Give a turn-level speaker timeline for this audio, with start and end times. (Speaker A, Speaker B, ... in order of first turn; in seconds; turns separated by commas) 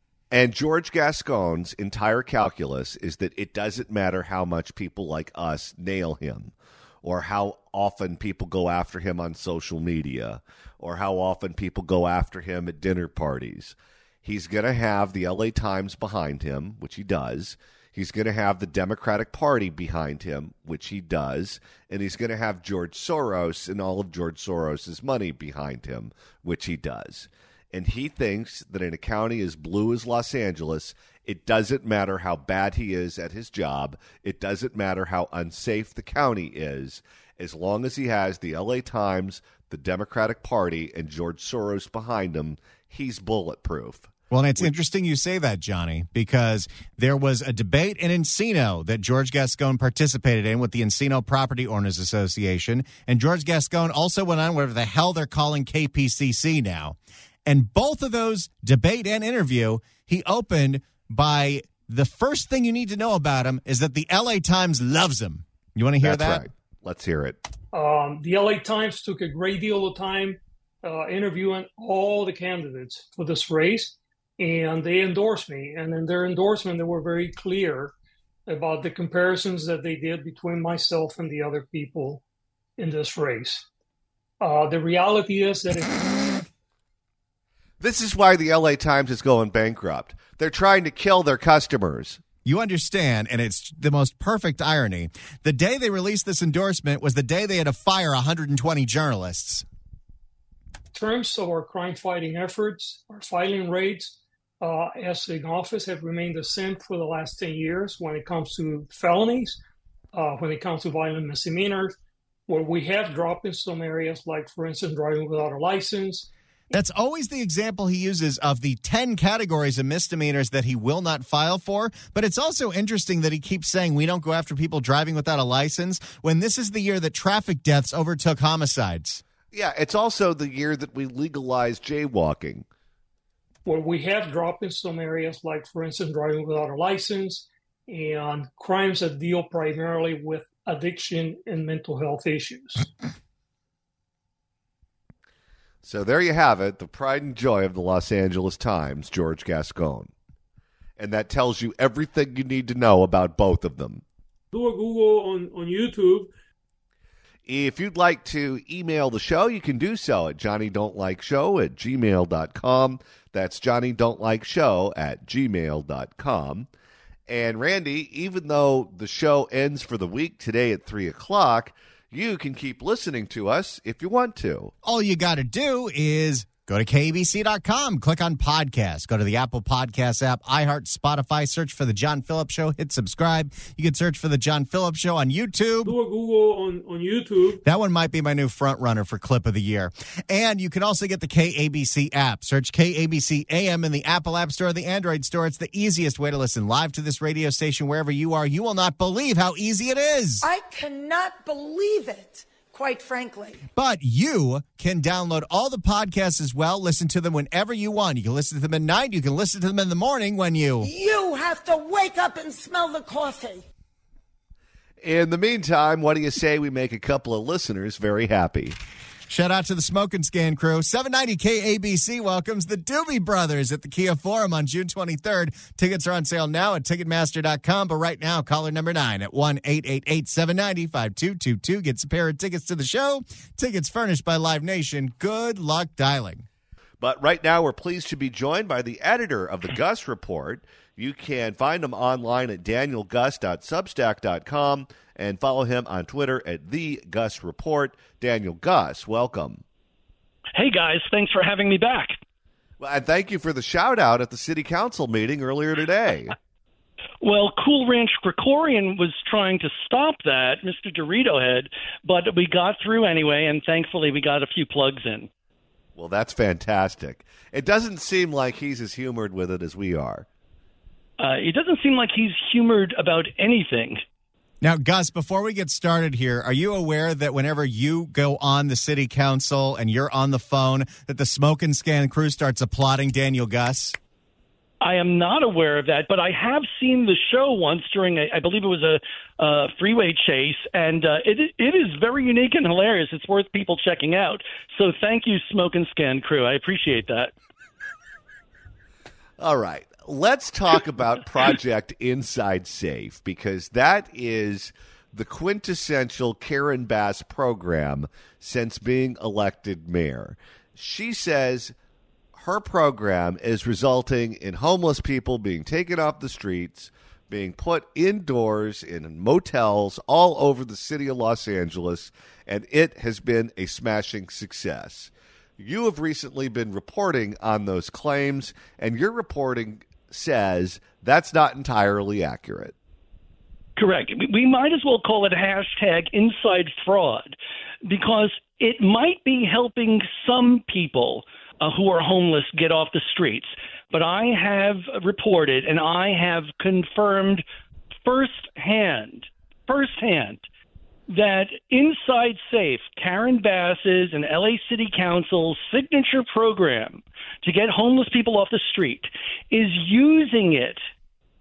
Speaker A: 0.3-44.7, Speaker B: 44.3-66.4, Speaker A: 66.0-67.4, Speaker C: 67.7-77.9, Speaker C: 78.5-82.2, Speaker C: 82.8-83.6, Speaker C: 84.4-85.9, Speaker A: 87.8-92.2, Speaker B: 92.4-99.6, Speaker C: 100.9-109.6, Speaker C: 110.1-111.9, Speaker C: 112.5-116.3, Speaker B: 116.7-129.2, Speaker A: 129.5-132.7, Speaker C: 133.7-142.9, Speaker A: 145.8-150.1, Speaker A: 151.0-154.0, Speaker C: 154.5-156.3, Speaker A: 157.5-166.7, Speaker A: 167.3-174.7, Speaker B: 174.8-185.9, Speaker C: 185.8-187.6, Speaker B: 187.6-200.4, Speaker D: 200.4-203.6, Speaker B: 203.8-210.9, Speaker D: 210.8-213.6, Speaker A: 215.0-218.7, Speaker B: 219.3-236.4, Speaker A: 237.0-249.6, Speaker E: 250.6-252.2, Speaker A: 252.8-256.3, Speaker E: 257.2-265.3, Speaker A: 265.9-270.2, Speaker E: 271.2-274.0, Speaker B: 274.6-283.9, Speaker E: 284.8-297.3, Speaker A: 299.4-311.7, Speaker A: 312.3-332.7, Speaker E: 333.8-347.4, Speaker E: 348.0-350.4, Speaker E: 351.1-360.8